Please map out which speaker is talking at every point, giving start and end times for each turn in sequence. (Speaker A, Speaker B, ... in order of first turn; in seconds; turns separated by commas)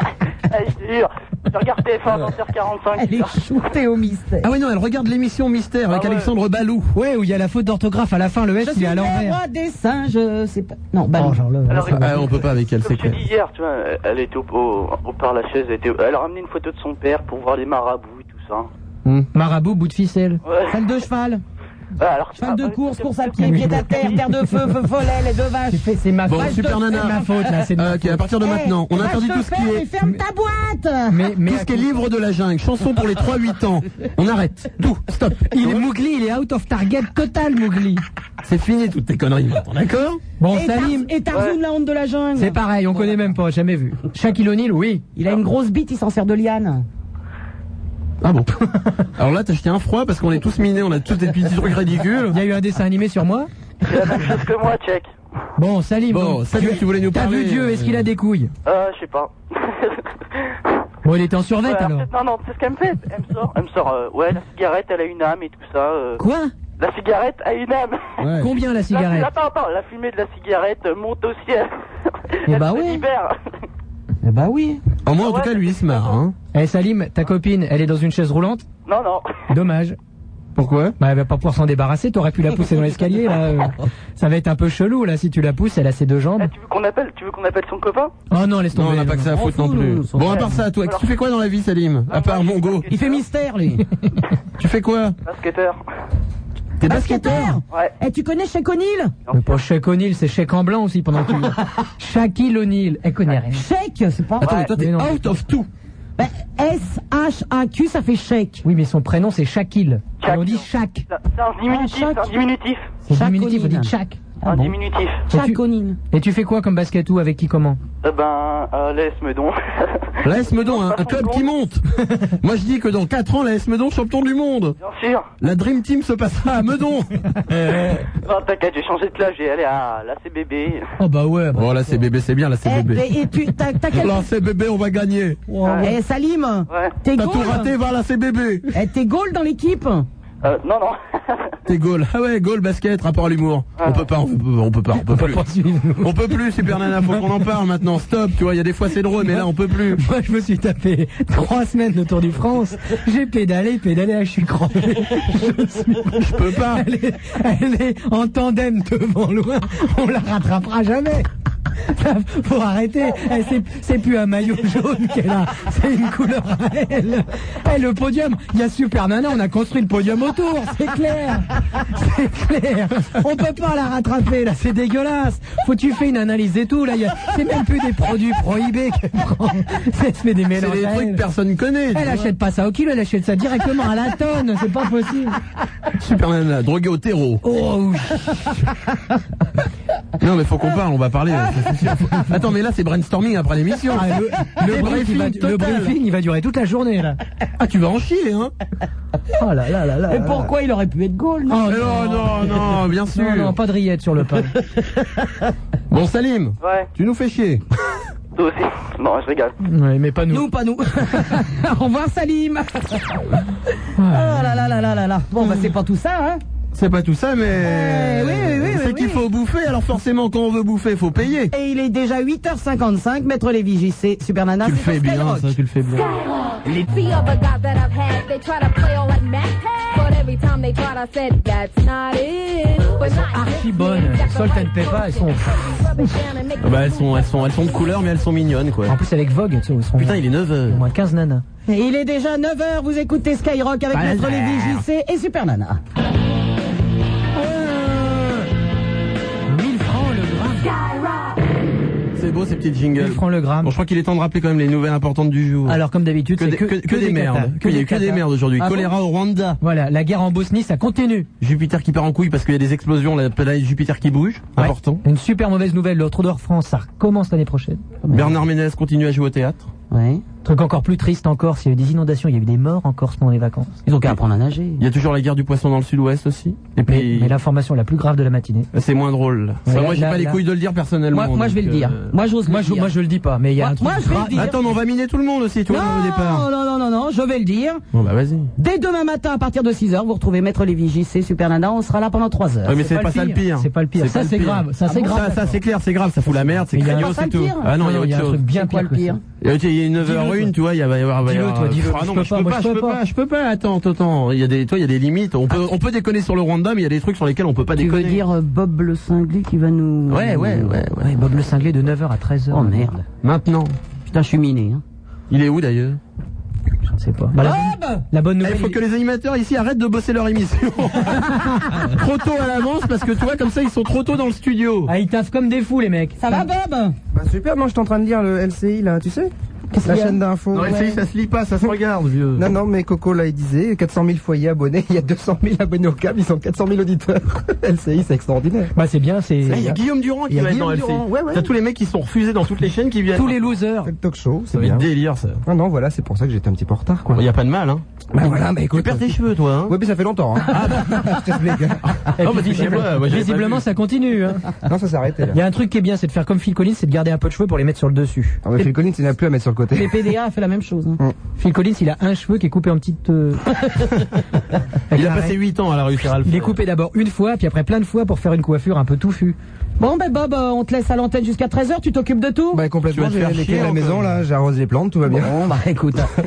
Speaker A: 0.5-3.5, Speaker B: 2.9-4.5, Speaker C: 4.4-6.9, Speaker A: 5.9-6.3, Speaker D: 6.9-9.4, Speaker B: 8.6-11.4, Speaker D: 11.2-12.4, Speaker A: 11.7-18.7, Speaker C: 11.9-13.2, Speaker D: 19.3-20.4, Speaker A: 20.4-20.8, Speaker B: 20.7-21.4, Speaker A: 22.0-24.1, Speaker B: 22.4-27.4, Speaker D: 23.4-24.7, Speaker D: 25.7-28.2, Speaker C: 26.3-27.2, Speaker C: 27.8-29.9, Speaker B: 28.4-31.3, Speaker D: 31.1-31.9, Speaker C: 31.4-35.9, Speaker D: 35.2-38.0, Speaker C: 38.4-40.2, Speaker D: 40.4-41.1, Speaker B: 40.5-43.1, Speaker A: 41.3-41.6, Speaker D: 42.4-45.0, Speaker B: 45.1-46.8, Speaker C: 48.2-52.4, Speaker D: 52.3-53.5, Speaker A: 53.8-55.1, Speaker D: 55.6-58.5, Speaker C: 56.1-58.0, Speaker A: 58.6-60.5, Speaker D: 61.0-62.1, Speaker A: 61.6-66.2, Speaker D: 66.2-66.5, Speaker A: 66.8-71.7, Speaker C: 68.2-68.5, Speaker D: 68.4-69.3, Speaker A: 72.3-73.3, Speaker B: 72.5-73.0, Speaker B: 74.2-74.8, Speaker C: 75.0-76.3, Speaker A: 75.1-76.2, Speaker D: 76.5-78.6, Speaker A: 78.8-79.3, Speaker D: 79.5-80.0, Speaker C: 80.5-80.9, Speaker D: 81.0-86.5, Speaker A: 86.4-88.1, Speaker D: 88.3-89.3, Speaker C: 88.7-92.9, Speaker B: 89.3-90.6, Speaker A: 90.3-91.1, Speaker A: 92.1-93.2, Speaker B: 92.9-93.9, Speaker C: 94.6-95.2, Speaker A: 95.2-95.8, Speaker C: 96.8-97.5, Speaker B: 96.8-99.1, Speaker D: 97.2-97.5, Speaker A: 99.3-99.6, Speaker D: 99.3-103.7, Speaker B: 103.5-104.7, Speaker C: 104.4-105.7, Speaker D: 104.7-105.4, Speaker B: 106.2-108.6, Speaker D: 108.6-111.0, Speaker A: 110.2-113.0, Speaker B: 111.7-112.3, Speaker D: 113.0-114.2, Speaker B: 113.1-114.8, Speaker A: 114.4-115.2, Speaker D: 115.3-115.6, Speaker B: 115.3-116.0, Speaker D: 116.1-117.8, Speaker A: 118.0-121.5, Speaker C: 120.2-124.8, Speaker A: 124.8-125.3, Speaker C: 125.4-128.0, Speaker A: 128.2-130.9, Speaker C: 131.0-133.1, Speaker B: 132.6-134.3, Speaker C: 133.9-135.4, Speaker D: 135.5-135.9, Speaker A: 135.6-135.9, Speaker B: 135.8-137.7, Speaker A: 136.7-137.0, Speaker C: 137.1-138.7, Speaker B: 138.7-140.1, Speaker A: 140.4-141.5, Speaker C: 141.7-145.4, Speaker A: 143.8-144.1, Speaker D: 145.0-147.2, Speaker C: 146.0-150.0, Speaker D: 149.2-161.3, Speaker C: 156.2-156.8, Speaker D: 161.9-181.2, Speaker C: 180.5-182.3, Speaker D: 181.9-185.4, Speaker C: 186.0-187.4, Speaker D: 187.4-188.7, Speaker C: 190.2-195.9, Speaker D: 193.9-197.2, Speaker C: 197.6-198.5, Speaker D: 199.3-200.5, Speaker B: 200.1-201.8, Speaker D: 201.5-204.5, Speaker C: 201.7-203.5, Speaker B: 204.8-205.1, Speaker C: 205.9-207.6, Speaker A: 206.6-206.9, Speaker A: 208.3-209.6, Speaker D: 209.6-210.5, Speaker B: 210.3-213.4, Speaker D: 214.0-214.9, Speaker B: 214.1-216.4, Speaker C: 216.7-221.5, Speaker B: 217.6-219.2, Speaker B: 221.5-225.5, Speaker C: 224.6-226.1, Speaker E: 226.6-237.7, Speaker D: 233.0-236.1, Speaker C: 236.6-239.0, Speaker D: 238.9-241.4, Speaker C: 239.9-240.8, Speaker B: 241.7-245.8, Speaker C: 243.9-244.9, Speaker D: 247.3-248.5, Speaker D: 249.5-250.7, Speaker C: 252.1-255.8, Speaker D: 252.9-253.7, Speaker D: 255.7-258.9, Speaker C: 256.4-259.6, Speaker D: 259.6-261.3, Speaker C: 261.4-265.0, Speaker D: 264.6-267.8, Speaker B: 268.0-268.3, Speaker C: 268.1-269.7, Speaker B: 269.9-270.2, Speaker D: 270.4-273.8, Speaker B: 273.9-274.8, Speaker C: 274.8-277.3, Speaker D: 276.9-278.7, Speaker C: 278.7-282.1, Speaker D: 279.6-280.4, Speaker B: 281.1-282.9, Speaker D: 282.5-284.5, Speaker B: 283.6-284.7, Speaker C: 284.3-286.5, Speaker B: 285.7-287.8, Speaker C: 287.9-288.5, Speaker B: 288.6-292.8, Speaker C: 292.6-298.4, Speaker D: 292.7-295.6, Speaker B: 294.9-295.3, Speaker D: 296.5-299.2, Speaker B: 296.8-297.7, Speaker B: 298.5-299.2, Speaker C: 299.4-308.2, Speaker D: 300.0-300.5, Speaker D: 301.2-303.0, Speaker B: 307.8-310.8, Speaker C: 310.1-311.1, Speaker D: 311.0-313.0, Speaker B: 312.5-313.0, Speaker C: 313.2-313.8, Speaker B: 314.1-314.8, Speaker C: 315.3-316.0, Speaker D: 317.0-318.8, Speaker B: 317.4-318.0, Speaker C: 318.4-321.3, Speaker D: 321.1-321.9, Speaker C: 321.9-324.9, Speaker D: 324.9-326.5, Speaker B: 326.2-326.9, Speaker F: 327.1-329.3, Speaker D: 329.8-330.0, Speaker F: 329.8-330.9, Speaker B: 329.9-330.1, Speaker C: 330.5-332.5, Speaker F: 332.4-338.7, Speaker D: 338.7-339.8, Speaker F: 339.4-339.8, Speaker C: 339.5-343.5, Speaker D: 340.3-341.1, Speaker F: 341.1-341.5, Speaker D: 343.1-343.9, Speaker F: 343.8-344.8, Speaker C: 344.5-345.4, Speaker F: 345.4-347.1, Speaker C: 347.1-347.8, Speaker F: 348.1-349.1, Speaker C: 348.7-349.8, Speaker F: 349.7-352.1, Speaker C: 350.5-351.1, Speaker C: 351.9-353.6, Speaker D: 352.2-354.4, Speaker F: 354.6-355.4, Speaker D: 355.3-358.4, Speaker F: 358.4-359.9, Speaker B: 359.7-361.0, Speaker D: 361.4-363.4, Speaker D: 364.9-365.3, Speaker C: 364.9-366.6, Speaker D: 366.2-369.4, Speaker B: 369.8-372.6, Speaker F: 372.5-375.3, Speaker C: 372.9-374.2, Speaker B: 375.1-376.1